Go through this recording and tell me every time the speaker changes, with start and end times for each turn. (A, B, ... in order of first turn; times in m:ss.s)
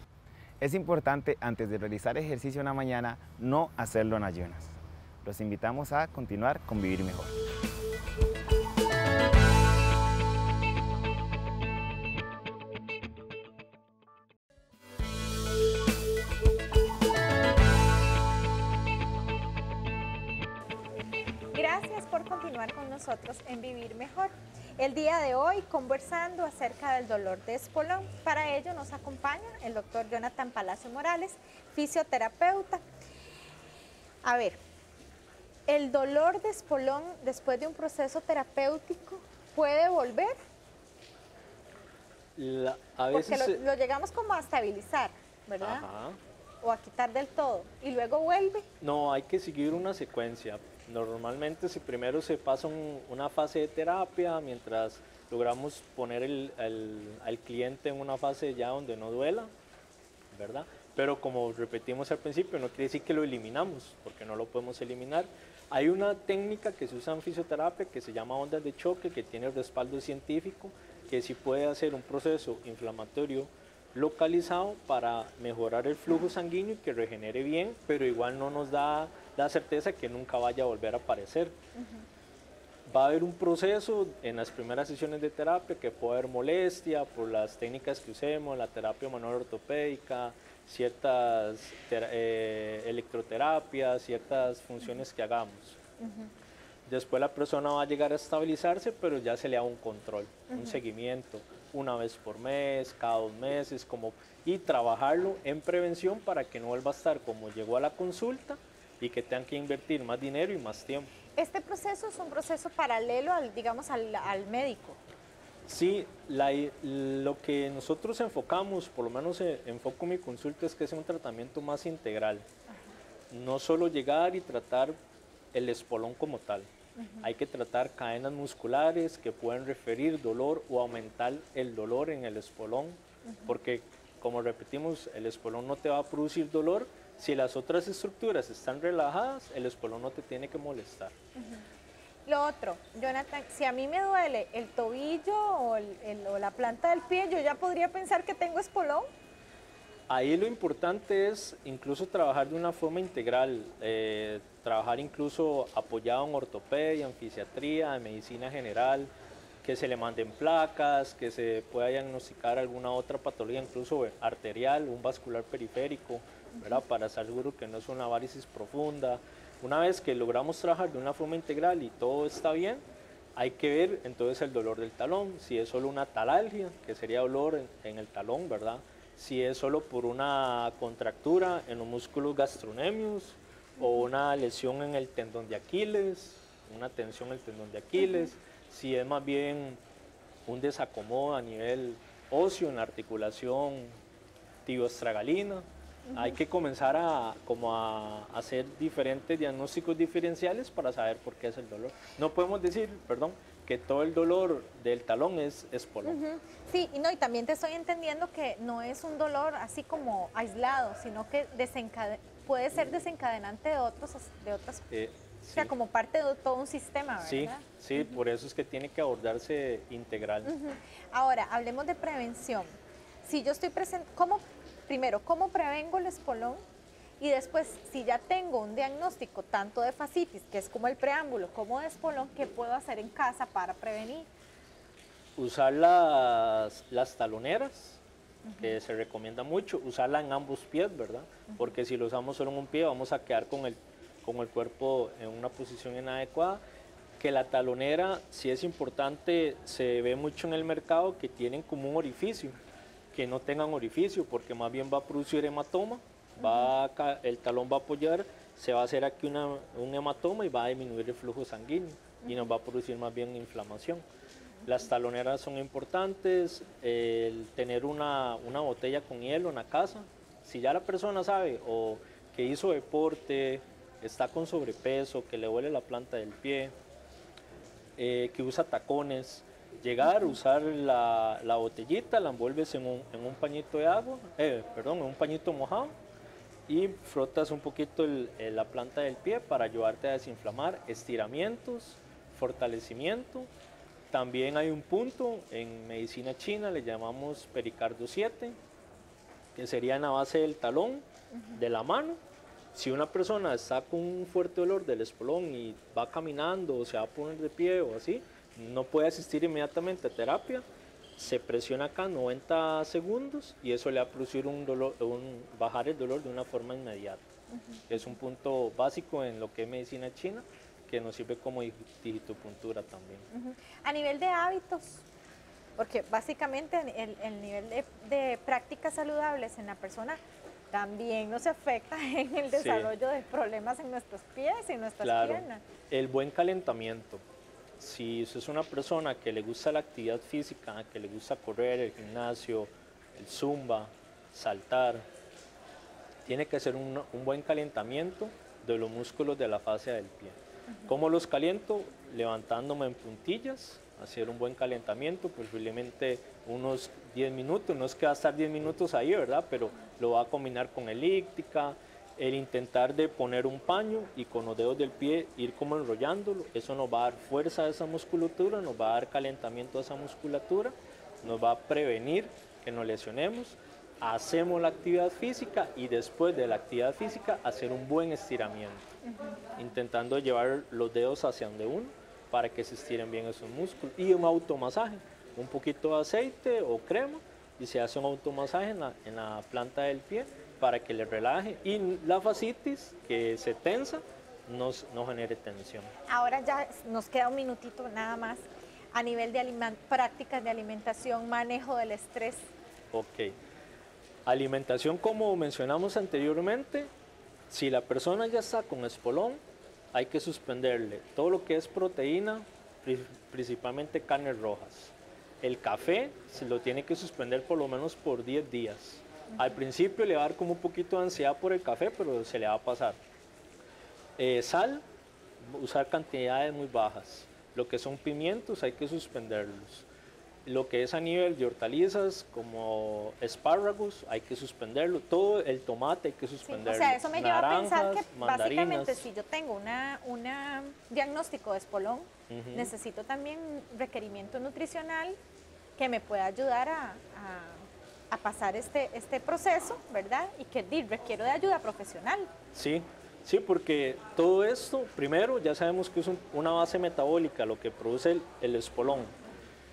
0:00.6-0:07.3 A
0:21.5-0:32.8 B
0:34.2-0:34.6 B
0:35.7-0:40.4 B
0:42.4-0:43.6 C
0:43.1-0:45.8 B
0:45.6-0:46.2 C
0:46.6-0:48.6 B
0:48.8-0:59.5 C
1:00.3-1:21.6 C
1:21.8-1:22.0 B
1:22.9-1:35.8 C
1:36.0-1:36.3 B
1:36.8-1:51.1 C
1:40.5-1:40.8 B
1:51.4-1:55.0 B
1:55.7-2:02.4 C
2:03.3-2:05.0 C
2:05.5-2:06.7 C
2:07.0-2:07.3 B
2:07.2-2:21.2 C
2:13.2-2:13.6 B
2:21.4-2:21.6 B
2:22.2-2:29.1 B
2:30.1-2:39.1 C
2:39.6-2:52.8 C
2:53.4-3:09.8 C
3:03.8-3:04.1 B
3:08.0-3:08.3 B
3:10.5-3:14.0 C
3:14.6-3:26.2 C
3:16.1-3:16.4 B
3:26.0-3:34.9 B
3:34.9-3:35.7 C
3:35.5-3:38.2 B
3:37.2-3:40.5 C
3:40.4-3:46.6 B
3:47.2-3:54.3 B
3:55.4-3:58.0 C
3:58.4-3:58.8 B
3:58.6-4:06.6 C
4:07.2-4:12.6 C
4:13.1-4:24.0 C
4:16.4-4:16.7 B
4:22.2-4:22.5 B
4:24.6-4:36.7 C
4:38.0-4:45.9 C
4:40.0-4:40.4 B
4:46.7-4:53.5 C
4:54.1-4:58.6 C
4:59.5-5:02.2 C
5:02.7-5:10.6 C
5:11.2-5:17.2 C
5:17.5-5:18.0 B
5:17.9-5:23.2 C
5:23.3-5:25.0 B
5:25.8-5:30.2 B
5:30.7-5:35.6 B
5:32.5-5:32.9 C
5:35.0-5:37.2 C
5:37.8-5:45.0 C
5:46.2-6:18.9 C
6:19.0-6:19.4 B
6:19.6-6:35.9 C
6:36.1-6:42.5 B
6:42.9-6:43.3 C
6:44.2-6:46.9 C
6:47.5-6:49.4 C
6:49.9-7:03.0 C
6:59.3-6:59.6 B
7:04.2-7:04.8 C
7:05.4-7:09.8 C
7:10.4-7:19.0 C
7:16.4-7:25.2 B
7:22.3-7:22.7 C
7:25.8-7:32.3 B
7:32.5-7:39.1 C